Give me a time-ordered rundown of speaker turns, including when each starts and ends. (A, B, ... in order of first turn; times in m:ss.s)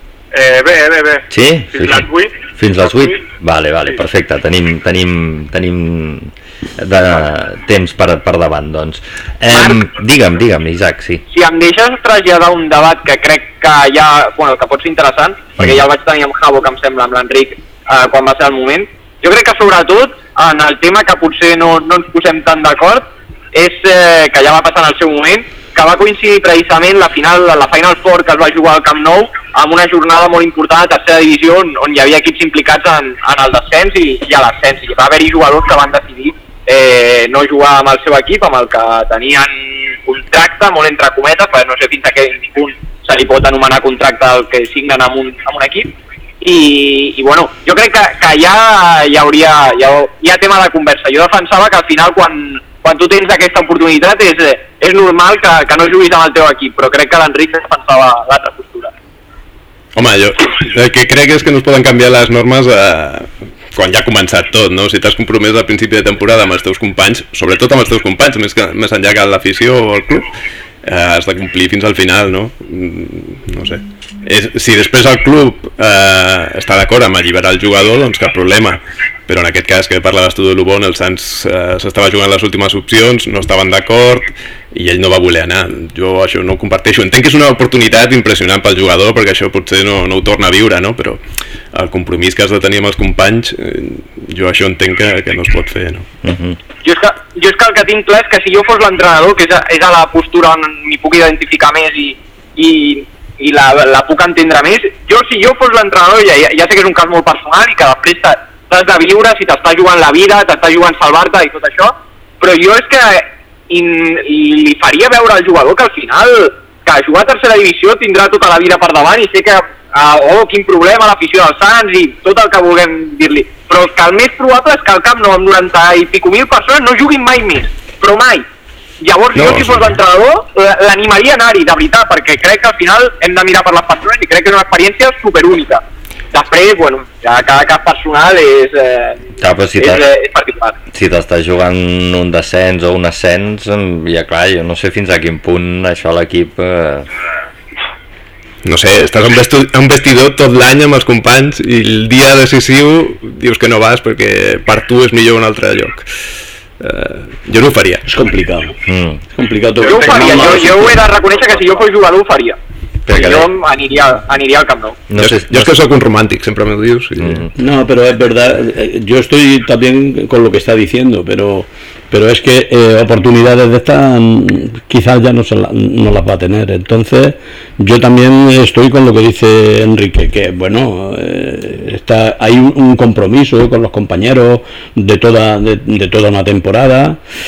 0:00.3-0:03.2 A
0:01.3-0:11.2 B
0:09.5-0:09.8 C
0:11.3-0:58.9 C
0:59.9-1:10.3 D
1:10.8-1:31.2 D
1:31.7-1:36.0 D
1:36.2-1:36.6 B
1:36.8-2:08.4 C
2:09.0-2:19.2 C
2:09.3-2:09.9 D
2:19.4-2:20.0 B
2:19.8-2:20.8 C
2:20.9-2:27.1 B
2:28.6-2:36.1 D
2:36.8-2:38.1 D
2:38.1-2:38.7 E
2:38.8-2:39.2 B
2:39.3-2:41.1 E
2:39.8-2:40.8 A
2:39.8-2:42.6 C
2:43.0-2:43.5 B
2:43.1-2:45.0 C
2:45.1-2:45.7 B
2:45.2-2:47.5 D
2:47.2-2:47.5 B
2:47.6-3:07.2 E